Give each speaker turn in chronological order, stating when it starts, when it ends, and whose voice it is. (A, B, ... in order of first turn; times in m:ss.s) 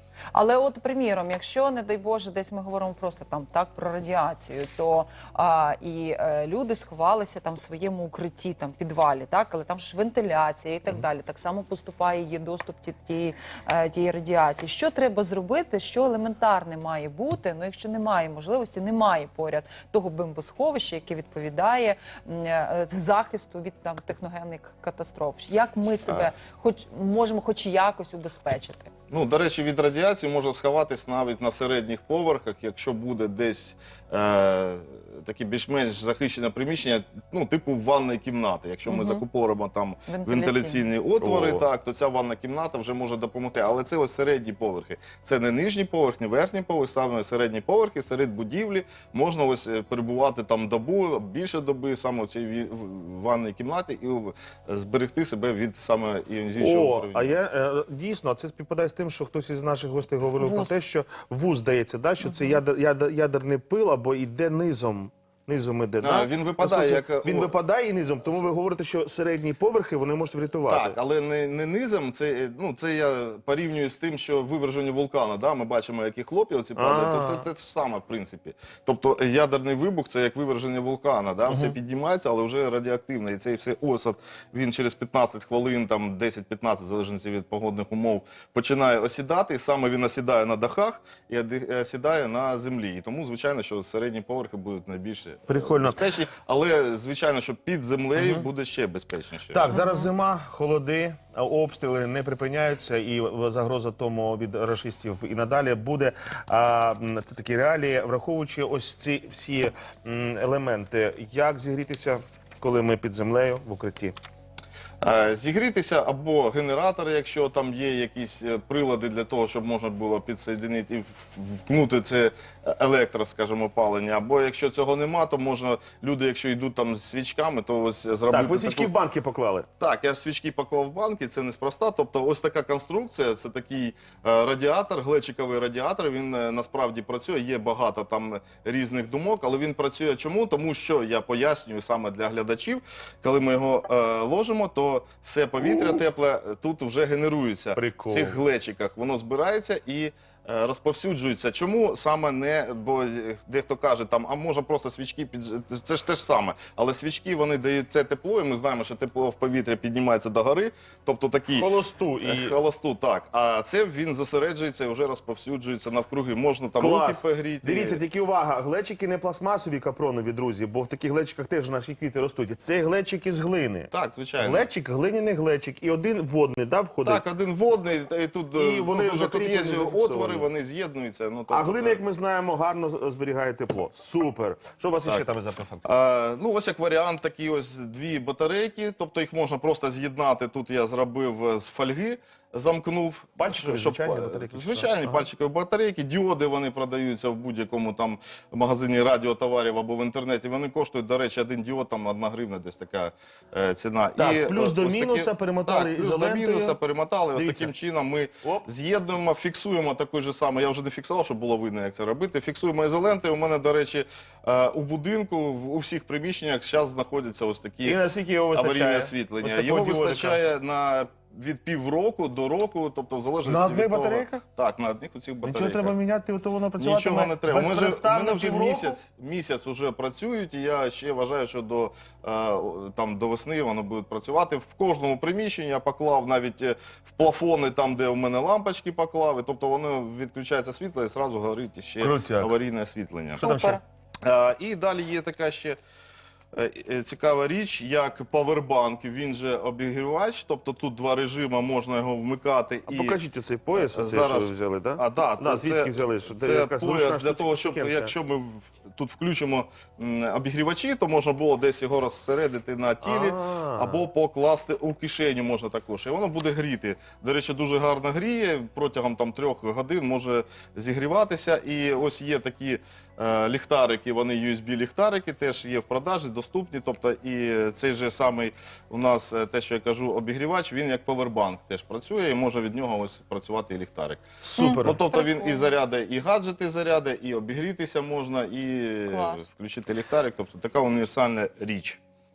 0:00.3-0:28.9 A
0:26.0-0:26.3 B
0:29.1-0:57.4 B
0:38.9-0:39.2 A
0:40.1-0:40.9 A
0:41.2-0:41.6 C
0:56.6-1:11.0 C
1:00.4-1:00.8 A
1:02.2-1:02.6 A
1:06.0-1:07.5 B
1:10.6-1:39.7 B
1:16.7-1:17.4 C
1:21.5-1:21.8 C
1:35.5-1:36.1 C
1:38.2-1:38.5 C
1:39.5-1:54.1 C
1:39.7-1:40.1 A
1:55.0-2:08.9 B
2:08.3-2:09.7 C
2:09.8-2:41.7 B
2:27.7-2:28.4 C
2:41.5-2:42.6 C
2:42.2-2:48.0 B
2:46.8-2:57.2 C
2:53.9-2:54.7 B
2:57.0-3:02.0 B
2:58.5-3:00.5 C
3:01.5-3:05.8 C
3:05.8-3:38.0 B
3:13.4-3:15.2 C
3:24.2-3:26.8 C
3:27.3-3:27.7 C
3:28.4-3:28.7 C
3:37.8-3:40.4 C
3:38.5-3:46.0 B
3:43.4-3:44.4 C
3:45.4-3:49.0 C
3:46.8-4:03.4 B
4:02.0-4:02.6 C
4:03.4-4:03.8 A
4:03.4-4:03.8 C
4:04.2-4:05.8 B
4:06.5-4:13.2 B
4:12.9-4:18.1 C
4:13.7-4:44.2 B
4:23.0-4:24.0 C
4:44.4-4:45.0 C
4:44.6-4:45.7 A
4:44.8-4:52.0 B
4:49.1-4:49.5 A